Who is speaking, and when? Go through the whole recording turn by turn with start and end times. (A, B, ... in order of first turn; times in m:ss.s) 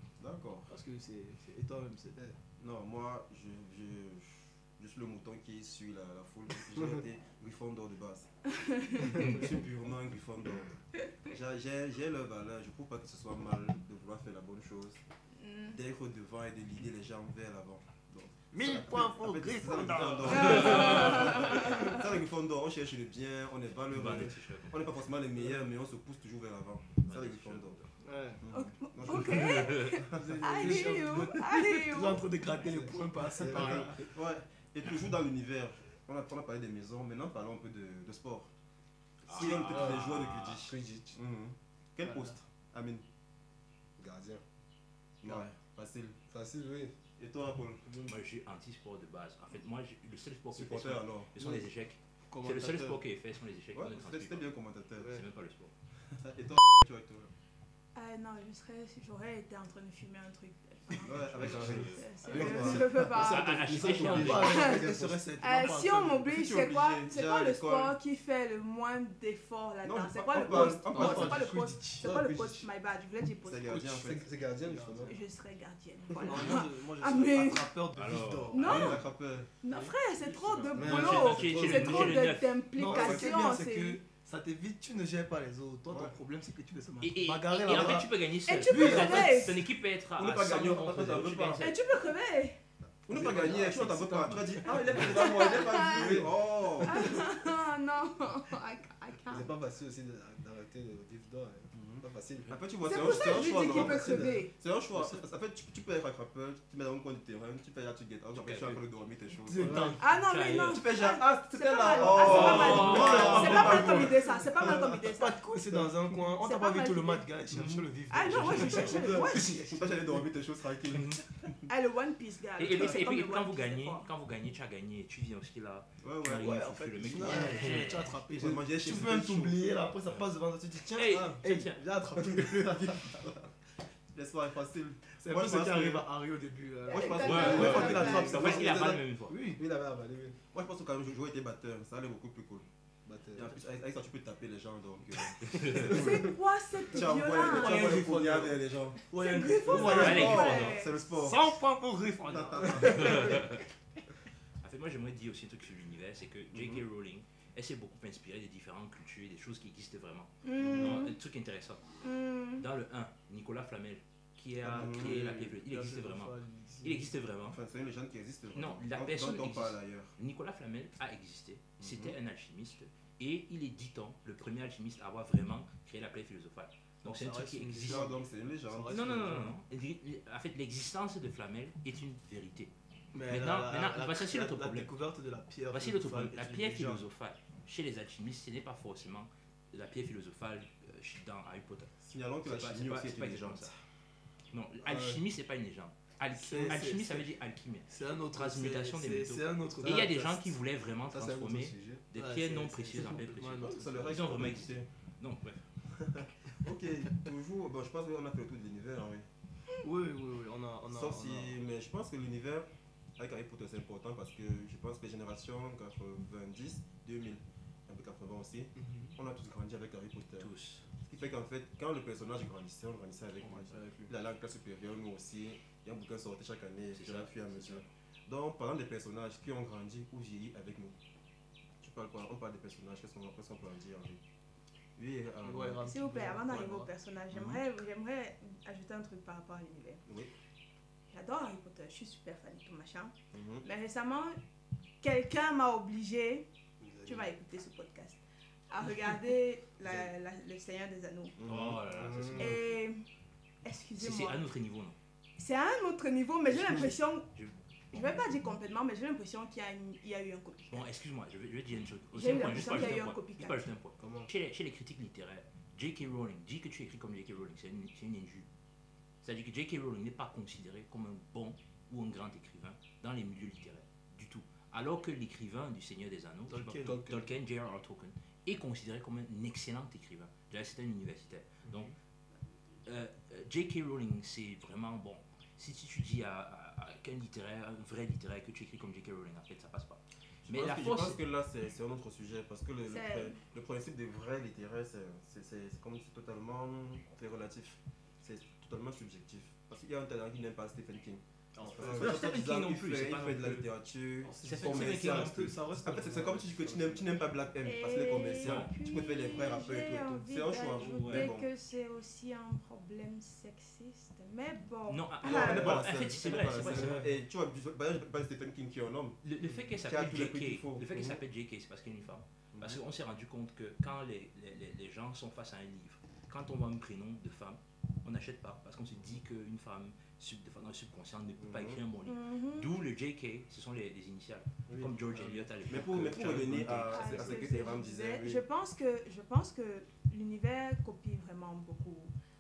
0:00.2-0:00.7 A
0:00.7-0:02.2 B
0:02.6-0:08.3 A
0:08.5-0:09.2 C
0:08.9-0:15.0 A
0:15.4-0:15.8 C
0:15.7-0:27.8 A
0:18.5-0:21.1 B
0:20.3-0:22.0 C
0:20.3-0:21.7 D
0:23.9-0:24.9 D
0:27.0-0:27.9 D
0:28.0-0:28.4 B
0:28.4-0:30.9 A
0:28.5-0:32.2 C
0:29.0-0:30.0 D
0:30.0-0:34.1 B
0:32.6-0:33.9 E
0:33.3-0:38.5 A
0:39.3-0:40.7 D
0:39.3-0:43.0 A
0:39.6-0:41.2 E
0:42.0-0:42.4 B
0:44.0-0:44.4 E
0:45.2-0:46.2 A
0:46.3-0:46.9 E
0:47.2-0:47.8 A
0:47.8-0:48.1 E
0:48.0-0:55.7 D
0:50.5-0:51.6 A
0:52.3-0:53.0 B
0:53.7-0:55.2 A
0:56.1-0:57.3 A
0:57.9-1:03.7 C
1:01.0-1:02.9 A
1:01.2-1:02.0 D
1:02.3-1:02.6 B
1:02.3-1:05.2 E
1:03.1-1:04.7 D
1:03.8-1:06.3 B
1:03.8-1:04.4 A
1:04.3-1:04.8 C
1:05.4-1:13.9 C
1:06.3-1:07.9 A
1:09.8-1:11.5 A
1:10.4-1:12.1 B
1:12.0-1:12.6 E
1:13.4-1:14.3 A
1:13.9-1:15.1 E
1:14.4-1:15.2 B
1:15.0-1:17.7 C
1:16.1-1:19.0 B
1:16.3-1:17.4 A
1:17.9-1:19.0 D
1:18.5-1:19.0 C
1:18.6-1:19.9 A
1:19.6-1:24.0 C
1:20.2-1:22.1 B
1:20.7-1:21.9 E
1:20.8-1:22.6 D
1:22.8-1:29.5 B
1:22.9-1:23.3 A
1:25.9-1:26.1 A
1:27.0-1:31.8 D
1:28.5-1:29.6 C
1:30.2-1:31.7 A
1:31.6-1:32.6 C
1:33.1-1:37.2 A
1:33.1-1:35.1 B
1:34.7-1:36.2 C
1:35.9-1:36.3 E
1:36.8-1:39.5 C
1:39.3-1:44.4 E
1:41.7-1:50.0 A
1:42.8-1:44.5 C
1:44.9-1:45.2 B
1:48.3-1:48.8 D
1:49.5-1:50.1 B
1:49.6-1:50.0 E
1:50.0-1:55.4 C
1:50.1-1:50.8 D
1:50.6-1:54.8 A
1:52.0-2:00.2 B
1:52.2-1:53.9 D
1:56.4-1:57.3 C
1:58.1-1:59.6 C
1:58.3-1:59.0 D
1:59.6-2:01.5 A
2:00.9-2:01.2 D
2:01.7-2:04.1 C
2:02.6-2:08.1 D
2:06.0-2:06.6 A
2:06.4-2:13.3 B
2:07.1-2:07.8 A
2:08.3-2:09.6 A
2:10.9-2:11.8 D
2:12.4-2:13.4 A
2:14.1-2:16.1 A
2:15.1-2:19.6 B
2:16.9-2:18.4 C
2:16.9-2:19.0 A
2:17.2-2:19.4 D
2:19.6-2:20.4 E
2:20.5-2:22.6 A
2:23.0-2:23.5 E
2:23.3-2:29.0 A
2:25.4-2:25.9 D
2:25.8-2:28.0 C
2:27.4-2:30.5 B
2:29.2-2:30.9 C
2:29.6-2:31.5 A
2:29.8-2:30.8 D
2:31.1-2:33.6 B
2:32.3-2:33.4 A
2:32.7-2:33.6 D
2:34.6-2:41.9 D
2:36.5-2:36.8 A
2:40.4-2:41.2 C
2:40.6-2:41.0 A
2:42.0-2:42.6 C
2:42.6-2:47.6 D
2:44.6-2:45.2 A
2:44.7-2:47.1 B
2:47.4-2:50.1 A
2:48.5-2:58.1 D
2:51.8-2:52.2 A
2:57.0-2:59.6 B
2:57.8-2:59.4 A
2:58.9-3:02.7 D
3:03.1-3:07.0 B
3:03.3-3:04.9 D
3:05.7-3:11.9 D
3:12.0-3:13.8 A
3:12.4-3:13.7 D
3:14.5-3:25.6 D
3:14.8-3:15.2 E
3:16.3-3:17.3 B
3:17.9-3:20.5 B
3:21.1-3:22.0 E
3:22.1-3:24.2 B
3:23.6-3:24.8 A
3:25.9-3:29.3 A
3:29.8-3:31.6 B
3:30.9-3:50.9 A
3:38.8-3:39.2 B
3:40.4-3:40.9 D
3:43.4-3:44.1 B
3:46.9-3:47.8 D
3:51.8-3:54.2 A
3:55.0-3:55.9 A
3:55.4-3:56.9 B
3:55.8-4:00.0 C
3:57.3-3:57.6 A
4:00.0-4:00.3 A
4:01.1-4:04.4 C
4:03.3-4:03.6 A
4:05.0-4:06.4 C
4:06.8-4:07.3 E
4:07.0-4:11.4 C
4:11.4-4:12.5 A
4:11.4-4:12.6 D
4:11.9-4:12.6 E
4:12.4-4:13.0 C
4:13.6-4:14.4 C
4:14.0-4:15.0 D
4:15.4-4:17.3 C
4:16.5-4:18.1 D
4:17.9-4:20.9 C
4:20.7-4:28.5 D
4:22.1-4:23.6 C
4:24.0-4:24.3 E
4:29.2-4:41.9 D
4:36.5-4:37.0 B
4:36.8-4:37.2 E
4:41.7-4:41.9 B
4:42.8-4:51.2 D
4:50.4-5:11.5 A
4:52.9-4:53.4 C
5:01.5-5:02.2 B
5:01.9-5:03.7 D
5:04.2-5:07.1 B
5:04.4-5:05.5 D
5:07.6-5:15.8 C
5:08.4-5:08.7 D
5:10.8-5:11.3 D
5:14.9-5:17.0 D
5:15.2-5:19.2 A
5:16.6-5:17.0 B
5:19.2-5:37.4 D
5:19.8-5:21.2 A
5:22.5-5:22.8 A
5:31.4-5:31.8 A
5:32.0-5:32.7 C
5:34.7-5:35.0 A
5:35.6-5:38.4 A
5:36.9-5:42.1 C